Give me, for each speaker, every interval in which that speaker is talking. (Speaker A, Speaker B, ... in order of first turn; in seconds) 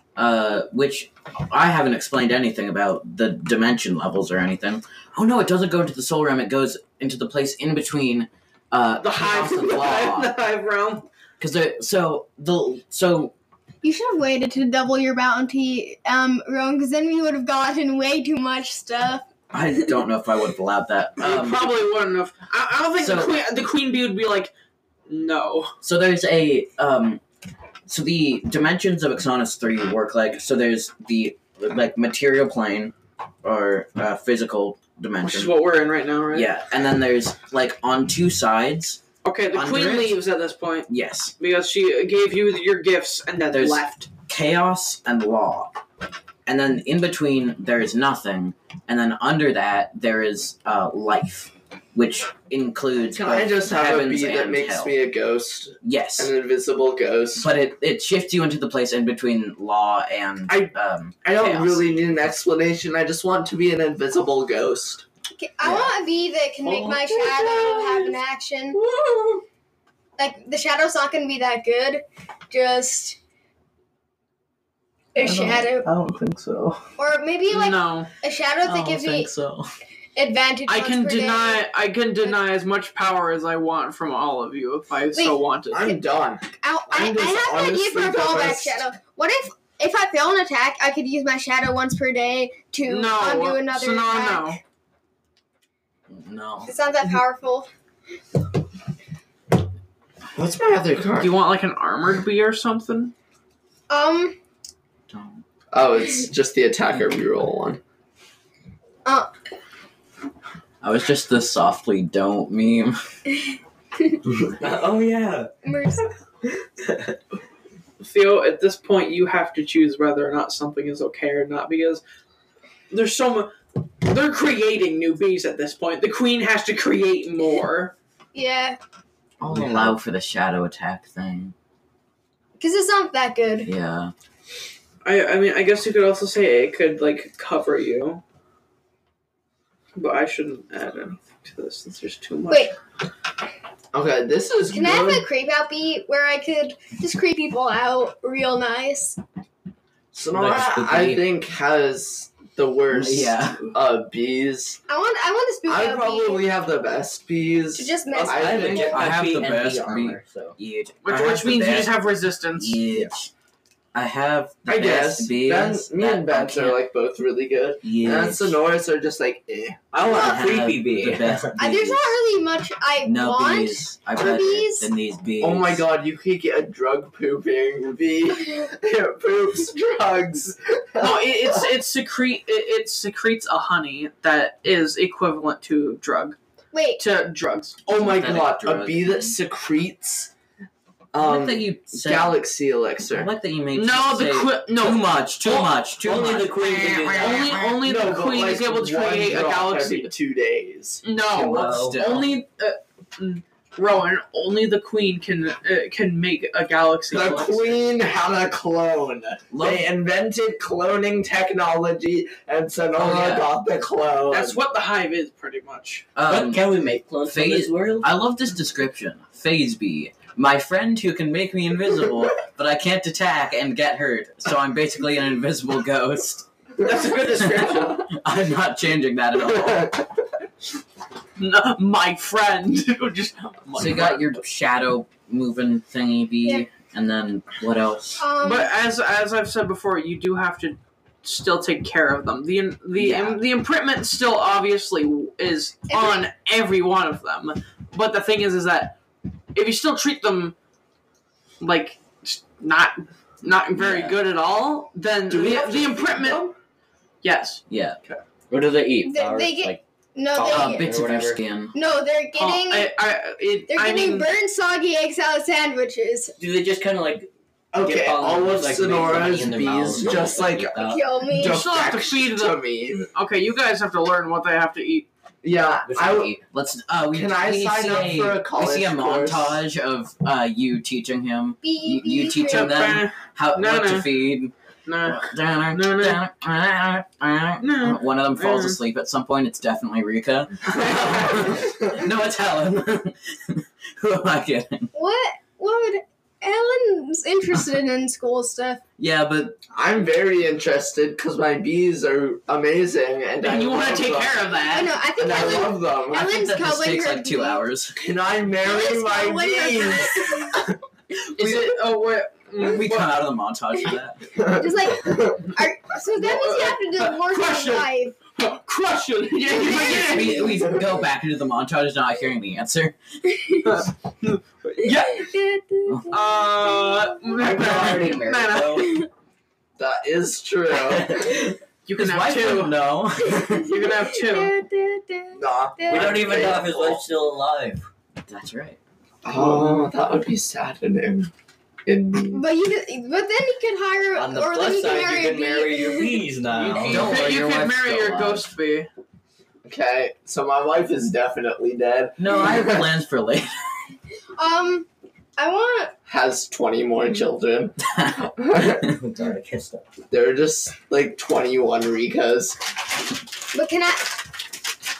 Speaker A: 0.1-10.3, 11.4-13.3, 19.5-21.7, 22.9-23.4, 25.8-27.2, 27.9-35.6, 36.3-39.0, 39.5-40.2, 40.9-41.3, 43.5-45.8, 46.5-54.9, 55.8-56.3, 57.3-61.8, 75.2-76.8, 78.6-79.7, 96.1-96.7, 105.1-105.4, 110.8-113.0, 129.4-131.5, 133.6-134.1, 152.9-153.7, 158.7-163.3, 163.9-166.8, 167.8-168.6, 170.0-172.1, 173.0-175.8, 187.9-189.3, 191.2-192.4, 193.1-197.8, 201.3-202.3, 209.5-209.9, 212.9-213.5, 216.2-216.7, 217.2-226.4, 227.4-229.9, 233.7-238.2, 242.9-243.4, 253.8-254.2, 257.7-258.0, 260.5-261.7, 275.9-294.9, 299.0-299.6, 306.1-308.0, 311.4-311.8, 312.6-314.3, 319.6-323.0, 325.9-326.1, 331.9-333.8, 338.2-338.8, 346.9-348.5, 352.2-353.5, 358.0-358.2
Speaker B: 9.0-11.1, 21.2-24.5, 25.1-25.7, 35.2-36.5, 39.2-44.1, 77.5-78.1, 80.7-86.0, 92.9-94.6, 101.2-103.1, 118.0-122.0, 122.9-127.9, 135.0-138.2, 139.9-142.7, 161.0-162.8, 181.0-186.4, 187.0-187.8, 193.7-195.5, 197.1-200.1, 201.0-207.8, 214.3-216.1, 226.8-227.8, 231.4-234.3, 238.4-249.0, 249.5-250.6, 251.6-256.4, 257.2-258.2, 262.4-264.3, 271.4-275.1, 282.5-284.3, 284.9-286.2, 287.6-288.8, 303.4-305.0, 311.4-313.2, 316.1-320.6, 323.6-325.3, 326.1-329.1, 331.9-332.8, 333.6-334.5, 346.5-348.9
Speaker C: 13.8-19.2, 65.4-68.8, 70.2-73.2, 75.1-75.9, 77.0-79.3, 80.2-81.7, 85.1-86.0, 86.6-94.6, 96.6-97.7, 103.9-104.3, 109.0-109.3, 115.6-116.1, 128.3-128.8, 132.6-133.7, 142.5-142.7, 144.7-149.2, 154.9-156.4, 157.7-158.9, 170.1-170.4, 171.6-174.9, 186.7-187.0, 238.2-238.7, 245.9-246.3, 259.0-260.9, 261.7-262.9, 263.7-266.3, 270.8-271.6, 281.6-282.9, 294.9-298.8, 304.7-307.6, 308.6-310.6, 314.5-318.1, 323.4-323.7, 324.8-327.2, 328.7-329.1, 333.5-336.2, 342.3-346.3, 354.4-355.9, 363.5-364.1
Speaker D: 53.1-57.5, 60.5-65.0, 66.7-67.9, 68.8-69.4, 85.7-88.8, 100.3-101.4, 105.7-107.8, 143.9-145.2, 150.1-154.8, 155.7-159.1, 164.7-170.1, 175.4-181.7, 187.8-190.3, 191.1-193.3, 197.6-201.0, 207.1-214.6, 226.8-228.1, 229.4-230.1, 255.3-256.5, 267.7-273.1, 275.4-276.4, 277.1-279.6, 290.7-292.0, 299.7-304.5, 305.1-306.3, 307.9-310.7, 314.4-315.5, 319.9-320.6, 327.7-328.0, 329.8-331.4, 335.3-337.0, 339.2-341.3, 341.9-342.4, 349.6-352.9, 356.1-358.8, 360.1-362.6
Speaker E: 114.4-115.5, 129.5-129.9, 150.3-151.3, 158.2-160.6, 169.9-171.5, 195.4-197.5, 201.3-202.2, 216.2-218.1, 258.5-259.8, 260.3-261.4, 266.4-267.3, 267.8-271.0, 327.3-329.0, 330.7-331.5, 335.9-337.9, 344.1-347.2, 358.8-359.8